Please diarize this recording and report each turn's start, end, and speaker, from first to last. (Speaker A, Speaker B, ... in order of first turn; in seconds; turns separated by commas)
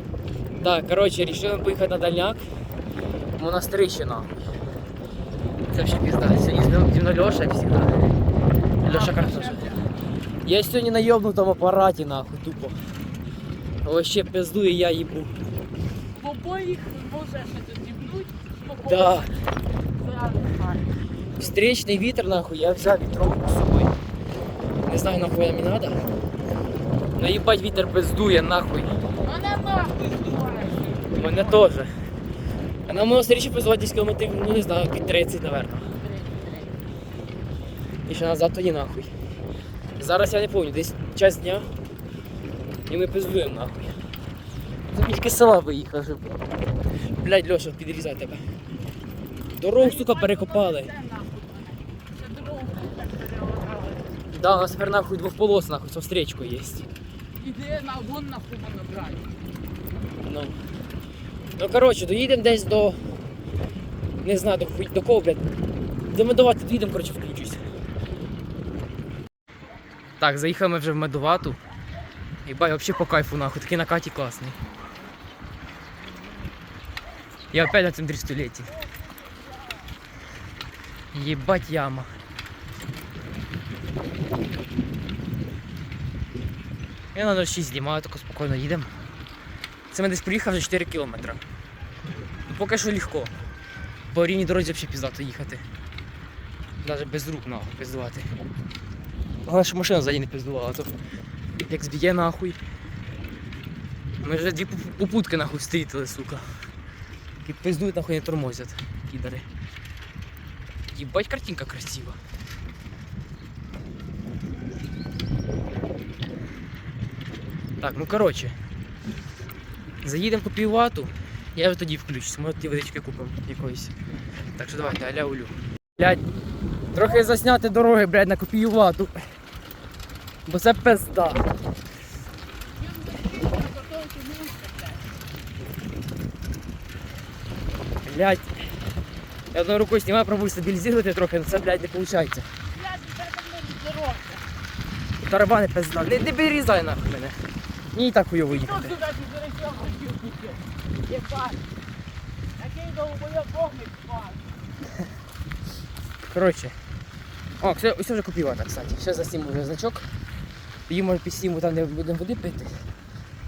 Speaker A: 0.6-2.5, Speaker A: 3.4-4.3, Speaker A: 5.7-8.0, Speaker A: 8.8-9.6, Speaker B: 8.8-9.9, Speaker A: 10.4-12.8, Speaker A: 13.8-15.3, Speaker B: 16.1-19.3, Speaker A: 18.8-19.3, Speaker B: 19.9-21.0, Speaker A: 21.4-23.9, Speaker A: 24.9-26.0, Speaker A: 27.2-29.0, Speaker B: 29.2-31.7, Speaker A: 31.1-31.9, Speaker A: 32.9-35.9, Speaker B: 36.0-36.8, Speaker A: 38.1-39.1, Speaker A: 40.0-41.7, Speaker A: 42.9-44.0, Speaker A: 44.9-46.4, Speaker A: 47.1-48.4, Speaker A: 49.6-50.9, Speaker B: 49.8-54.2, Speaker A: 54.3-56.9, Speaker B: 57.4-59.3, Speaker A: 60.2-60.6, Speaker A: 61.6-63.0, Speaker A: 64.2-65.5, Speaker A: 66.1-67.6, Speaker A: 70.2-71.6, Speaker A: 72.5-74.6, Speaker A: 77.5-78.8, Speaker A: 81.1-82.1, Speaker A: 87.1-88.9, Speaker A: 89.9-91.4, Speaker A: 92.5-93.3, Speaker A: 94.1-95.7, Speaker A: 96.8-98.3, Speaker A: 99.5-100.9, Speaker A: 101.6-102.6, Speaker A: 104.2-106.5, Speaker A: 107.4-109.5, Speaker A: 110.9-112.2, Speaker A: 117.8-118.6, Speaker A: 120.0-124.0, Speaker A: 124.6-126.2, Speaker A: 126.9-129.2, Speaker A: 130.5-131.5, Speaker B: 132.7-135.1, Speaker A: 138.1-138.5, Speaker A: 139.5-142.5, Speaker B: 142.7-144.5, Speaker A: 145.2-147.4, Speaker A: 147.9-149.0, Speaker B: 148.5-151.6, Speaker B: 152.6-154.5, Speaker A: 156.3-156.8, Speaker A: 157.6-160.1, Speaker A: 160.9-162.8